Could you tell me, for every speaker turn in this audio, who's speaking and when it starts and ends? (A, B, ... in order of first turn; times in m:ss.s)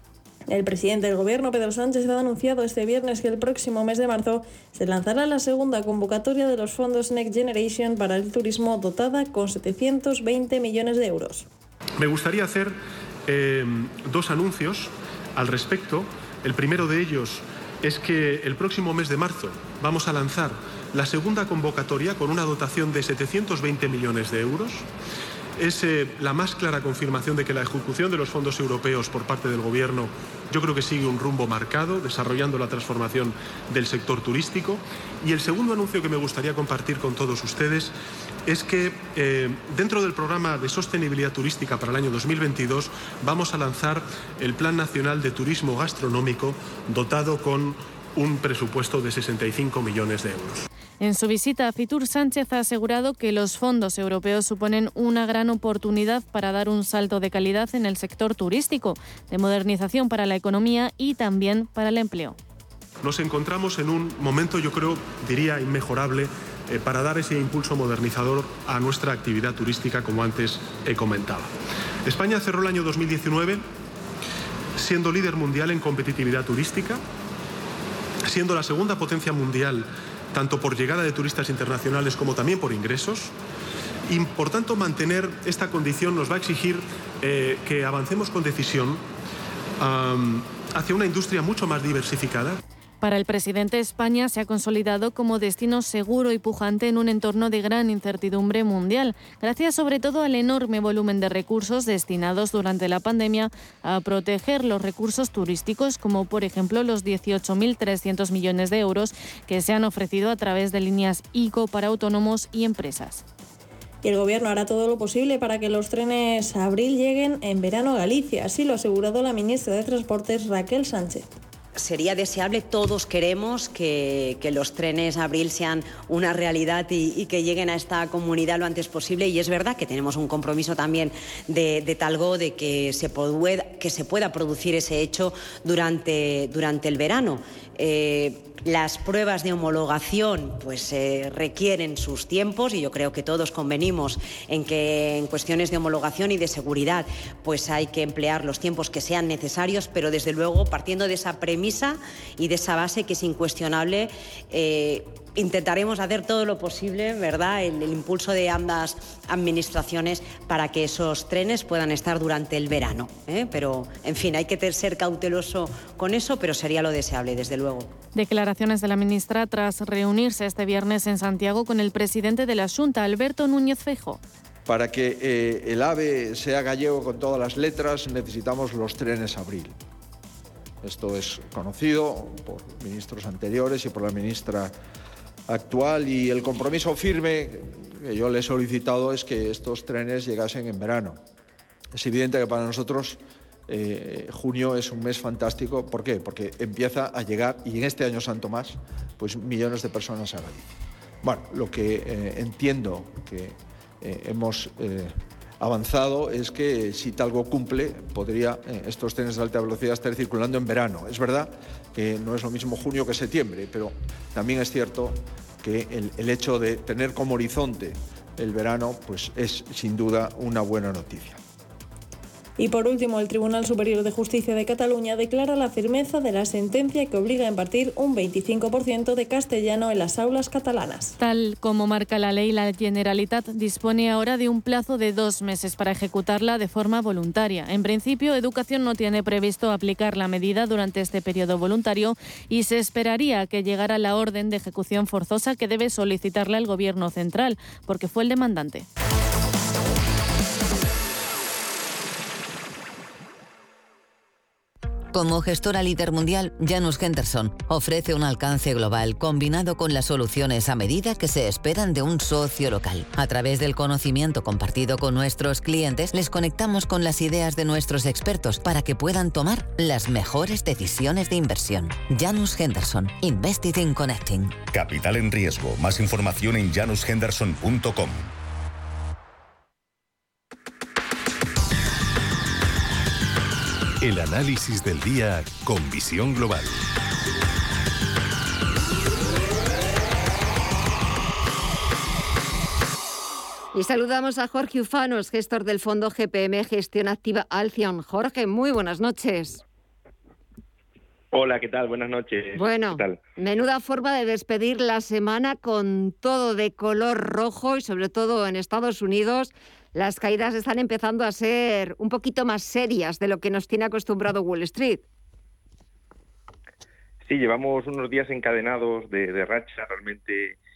0:00.5-0:11.5 A
0:12.0-0:24.9 B
0:25.6-0:37.9 B
0:38.5-0:50.6 B
0:51.0-1:02.4 C
1:03.0-1:11.5 B
1:12.0-1:13.6 B
1:14.8-1:17.0 B
1:18.3-1:23.3 B
1:24.1-1:29.0 B
1:29.8-1:32.6 B
1:33.0-1:53.2 C
1:54.0-2:01.3 A
2:01.8-2:47.9 D
2:48.2-2:54.2 C
2:54.7-2:59.8 E
3:00.8-3:04.7 E
3:05.5-3:11.2 E
3:11.9-3:20.7 E
3:21.2-3:41.4 E
3:42.6-3:51.2 A
3:51.2-4:08.9 C
4:15.1-4:34.6 F
4:44.0-4:46.7 G
4:53.7-4:59.6 H
5:01.3-5:03.2 I
5:02.6-5:15.0 H
5:17.2-5:20.6 I